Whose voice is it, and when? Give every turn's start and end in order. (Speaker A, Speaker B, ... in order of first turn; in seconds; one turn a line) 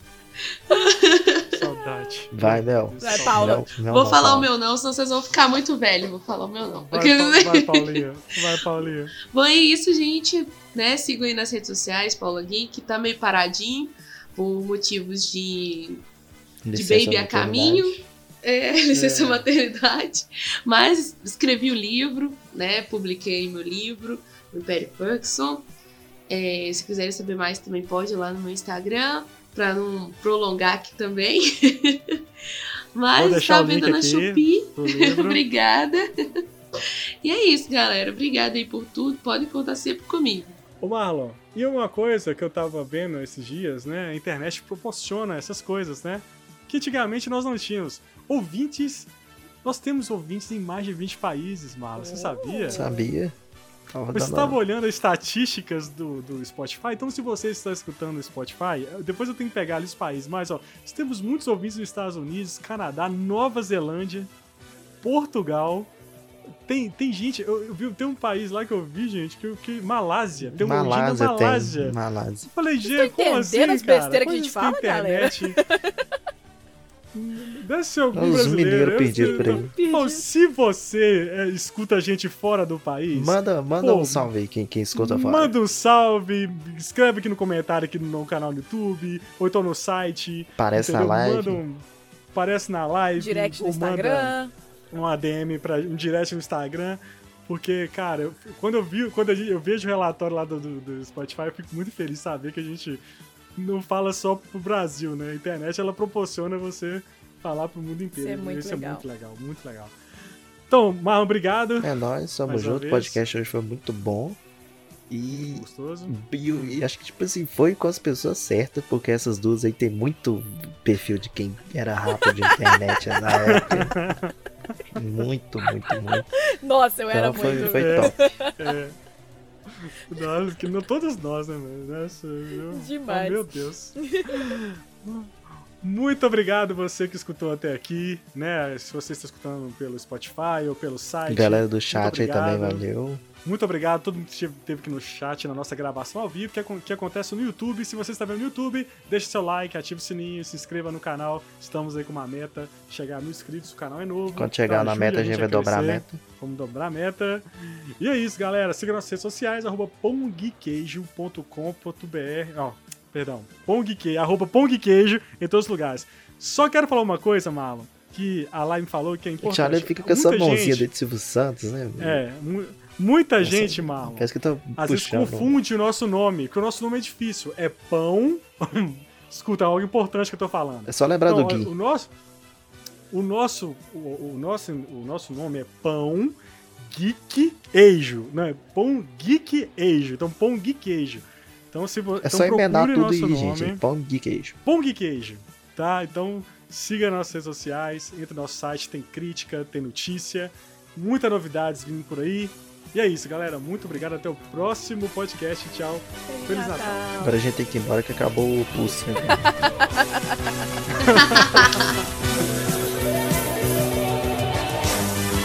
Speaker A: 0.7-1.6
Speaker B: 1.5-3.6
Speaker C: 2.3-4.5
Speaker D: 3.0-3.7
Speaker A: 3.9-8.0
Speaker B: 6.9-9.2
Speaker A: 9.2-16.0
Speaker C: 16.6-18.0
Speaker A: 16.7-25.7
Speaker B: 18.9-19.4
Speaker A: 26.3-32.2
Speaker A: 32.9-36.4
Speaker B: 33.1-35.4
Speaker A: 37.2-40.6
Speaker B: 40.8-49.1
Speaker B: 49.6-52.8
Speaker D: 52.0-53.0
Speaker C: 52.7-53.4
Speaker C: 53.9-54.6
Speaker B: 54.1-64.3
Speaker B: 65.0-65.9
Speaker B: 66.7-72.0
Speaker C: 70.5-72.5
Speaker B: 72.5-75.6
Speaker D: 72.9-75.9
Speaker B: 77.1-84.3
Speaker C: 78.1-79.7
Speaker D: 79.1-80.2
Speaker C: 83.1-85.5
Speaker B: 84.9-94.3
Speaker C: 90.6-91.6
Speaker D: 93.2-94.5
Speaker B: 94.9-103.0
Speaker B: 103.5-109.9
Speaker D: 108.2-109.0
Speaker B: 110.7-111.9
Speaker C: 111.8-114.4
Speaker B: 112.5-113.2
Speaker C: 115.1-124.0
Speaker B: 115.3-116.8
Speaker B: 123.4-124.3
Speaker C: 124.9-126.3
Speaker D: 126.6-128.5
Speaker C: 127.1-128.1
Speaker B: 127.4-128.9
Speaker B: 129.8-135.3
Speaker D: 132.7-133.4
Speaker D: 134.0-134.5
Speaker B: 135.8-142.8
Speaker C: 141.3-143.2
Speaker B: 143.4-170.9
Speaker C: 154.3-156.2
Speaker C: 169.4-172.2
Speaker B: 172.0-182.1
Speaker C: 173.4-175.6
Speaker C: 180.8-181.7
Speaker B: 183.1-193.8
Speaker C: 192.2-194.6
Speaker B: 194.6-207.0
Speaker D: 206.3-207.3
Speaker C: 207.2-209.5
Speaker B: 211.0-211.8
Speaker A: 211.5-211.8